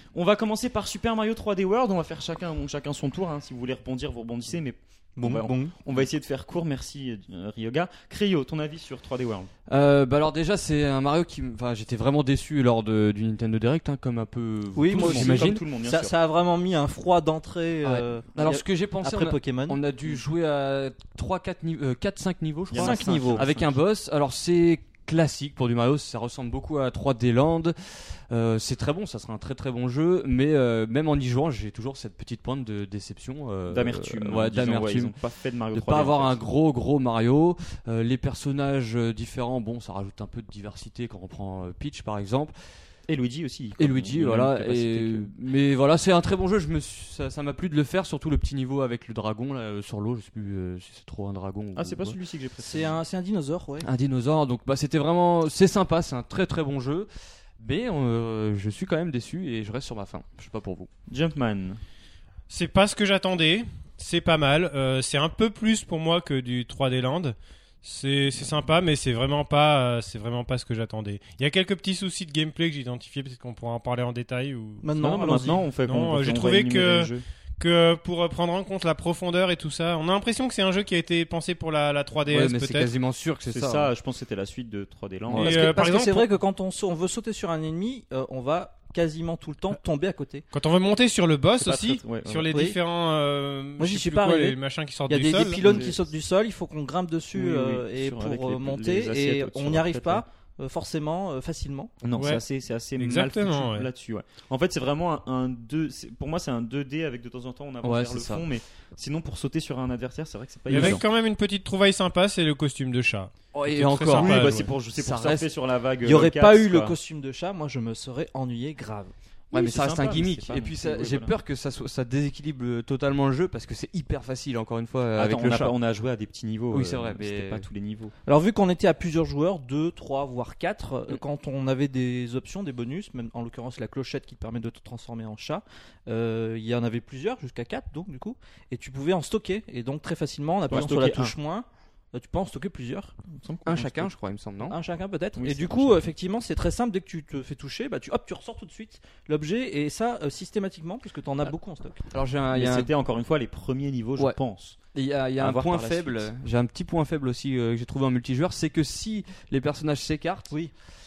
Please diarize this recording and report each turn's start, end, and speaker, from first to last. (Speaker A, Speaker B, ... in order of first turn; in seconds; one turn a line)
Speaker A: 0.1-9.5
Speaker B: 5.2-5.8
Speaker C: 9.7-15.6
Speaker B: 14.8-19.8
Speaker A: 14.9-16.1
Speaker C: 17.8-35.1
Speaker A: 22.7-23.8
Speaker B: 22.8-23.4
Speaker A: 33.7-36.4
Speaker C: 35.7-42.5
Speaker A: 43.1-45.3
Speaker C: 43.8-52.2
Speaker A: 51.8-53.0
Speaker B: 52.6-53.9
Speaker C: 53.8-60.9
Speaker A: 61.1-61.8
Speaker D: 62.5-74.9
Speaker B: 74.8-75.6
Speaker A: 75.0-77.2
Speaker D: 75.8-82.9
Speaker C: 82.3-83.9
Speaker A: 83.5-85.6
Speaker D: 85.4-86.3
Speaker B: 85.4-90.5
Speaker D: 90.5-95.8
Speaker A: 91.6-92.5
Speaker B: 92.5-92.8
Speaker B: 93.8-94.6
Speaker B: 95.1-101.9
Speaker A: 95.6-96.1
Speaker A: 97.3-100.2
Speaker A: 102.0-111.0
Speaker D: 102.2-102.4
Speaker D: 103.0-103.9
Speaker C: 107.8-108.5
Speaker D: 110.7-114.7
Speaker C: 110.7-111.0
Speaker C: 113.5-115.5
Speaker A: 114.1-117.0
Speaker B: 116.0-119.1
Speaker A: 119.5-121.3
Speaker C: 119.5-125.8
Speaker A: 125.2-128.1
Speaker C: 126.7-127.7
Speaker B: 128.2-143.2
Speaker A: 140.7-141.3
Speaker A: 143.4-144.1
Speaker C: 143.7-144.8
Speaker B: 144.7-152.0
Speaker A: 145.4-146.1
Speaker C: 152.1-152.9
Speaker A: 152.5-154.8
Speaker C: 154.9-160.5
Speaker A: 155.4-156.3